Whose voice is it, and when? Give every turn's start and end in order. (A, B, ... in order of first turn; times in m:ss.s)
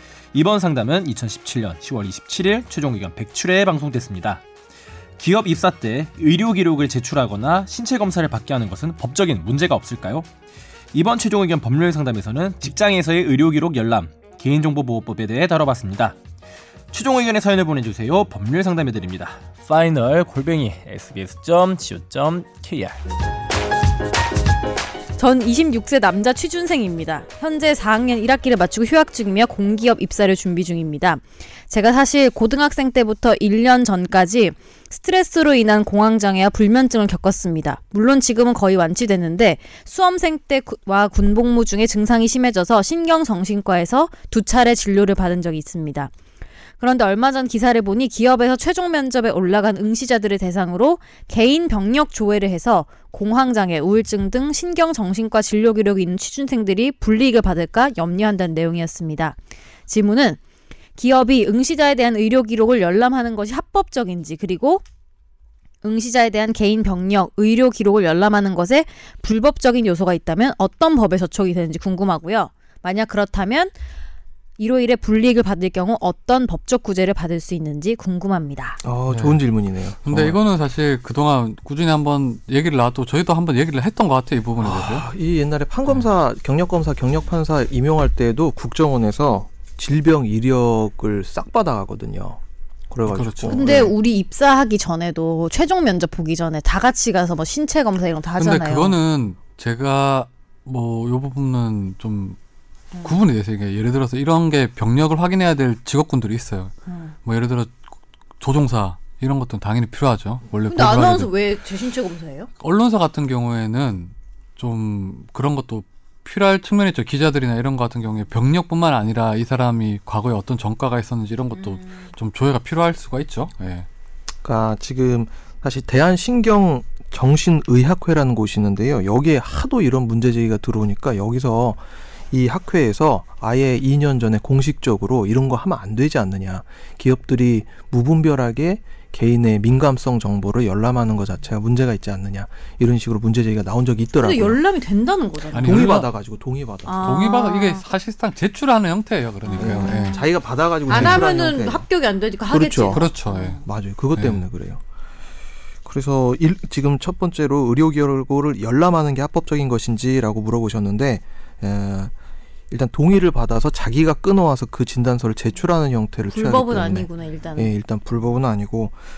0:00.3-0:04.4 A
0:05.2-0:10.3 A
0:10.9-0:16.2 A
0:16.9-0:23.0 A
0:25.2-0:46.1 B
0:46.8-1:00.4 B
1:01.0-1:04.8 B
1:05.8-1:13.8 B
1:14.6-1:18.8 B
1:18.8-1:20.4 C
1:19.1-1:19.4 D
1:20.0-1:25.0 D
1:24.6-1:33.9 C
1:33.0-1:33.9 D
1:33.5-1:39.0 B
1:38.4-1:42.4 D
1:42.9-1:43.2 B
1:43.0-1:46.7 D
1:46.9-1:47.1 B
1:47.2-1:47.8 D
1:48.4-1:51.3 D
1:50.7-1:52.5 B
1:52.6-2:03.9 D
2:01.6-2:02.1 B
2:04.4-2:24.6 C
2:24.2-2:25.9 B
2:25.5-2:26.1 D
2:25.5-2:27.1 C
2:26.8-2:27.8 B
2:27.0-2:30.2 D
2:29.4-2:30.2 B
2:29.5-2:31.8 C
2:30.9-2:33.6 B
2:30.9-2:31.2 D
2:32.5-2:33.0 C
2:32.9-2:33.6 D
2:33.6-2:34.8 C
2:34.2-2:34.4 D
2:35.8-2:42.1 C
2:42.7-2:49.0 C
2:46.3-2:47.7 B